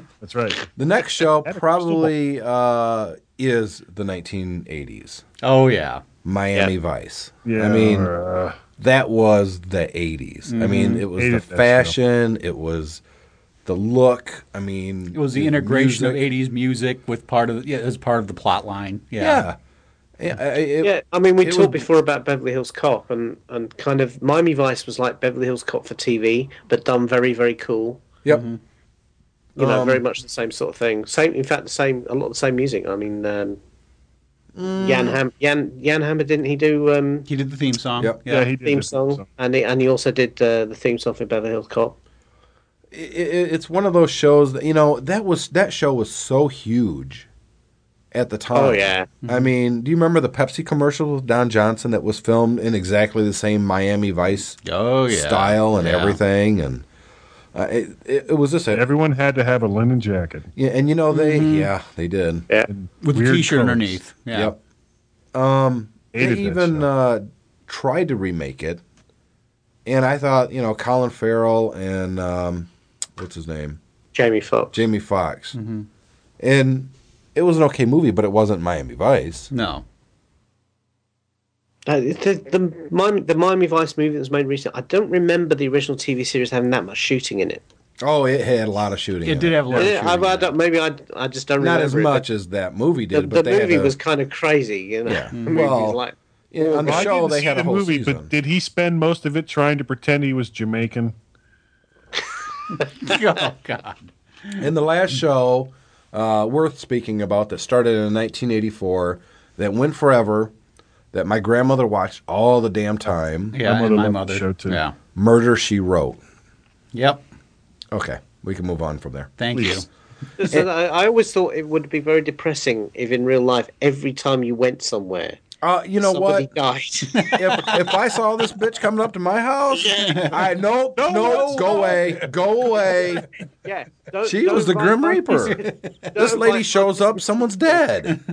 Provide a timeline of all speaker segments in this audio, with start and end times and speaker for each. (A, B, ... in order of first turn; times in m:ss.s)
0:00.2-0:00.7 A
0:00.8-0:05.2 B
0:01.4-0:02.1 A
0:05.4-0:06.0 C
0:06.2-0:08.1 B
0:07.4-0:08.6 A
0:08.8-0:13.0 B
0:10.5-0:11.0 C
0:11.1-0:12.0 A
0:13.7-0:16.2 B
0:15.1-0:19.4 C
0:19.2-0:19.6 B
0:20.2-0:21.9 B
0:20.8-0:28.0 D
0:28.3-0:28.6 C
0:29.6-0:30.0 B
0:29.6-0:33.6 D
0:34.6-0:35.2 B
0:34.8-0:37.3 D
0:37.3-0:38.5 C
0:38.3-0:39.3 A
0:38.6-0:42.0 D
0:42.9-0:47.3 B
0:48.1-0:56.8 B
0:48.5-0:49.1 D
0:49.2-0:49.5 C
0:54.6-0:56.2 C
0:57.5-0:58.8 B
0:58.7-1:00.5 A
1:00.6-1:02.5 B
1:01.1-1:01.7 C
1:02.7-1:04.0 A
1:03.0-1:04.5 C
1:04.3-1:04.6 B
1:05.3-1:08.8 B
1:06.1-1:06.8 A
1:09.9-1:13.8 B
1:14.1-1:14.8 D
1:14.7-1:15.6 B
1:15.6-1:15.9 C
1:16.4-1:19.5 B
1:19.5-1:19.8 C
1:21.9-1:27.6 D
1:28.0-1:29.6 B
1:29.2-1:30.5 C
1:29.7-1:32.3 D
1:31.6-1:34.0 B
1:33.1-1:37.1 D
1:35.1-1:36.0 B
1:36.5-1:38.3 B
1:36.8-1:41.2 A
1:43.0-1:44.6 C
1:44.6-1:50.5 B
1:51.1-1:53.6 B
1:53.5-1:54.9 C
1:53.6-1:54.8 A
1:55.2-1:56.2 B
1:56.9-1:57.2 C
1:57.9-1:59.3 B
1:59.4-1:59.9 C
1:59.6-1:59.8 A
2:00.4-2:05.4 D
2:05.6-2:06.5 B
2:06.0-2:07.7 D
2:07.1-2:07.5 C
2:07.3-2:13.2 B
2:09.8-2:10.2 D
2:10.0-2:10.4 C
2:11.0-2:12.0 A
2:13.6-2:15.5 D
2:14.2-2:18.2 B
2:15.6-2:15.9 C
2:16.1-2:17.7 D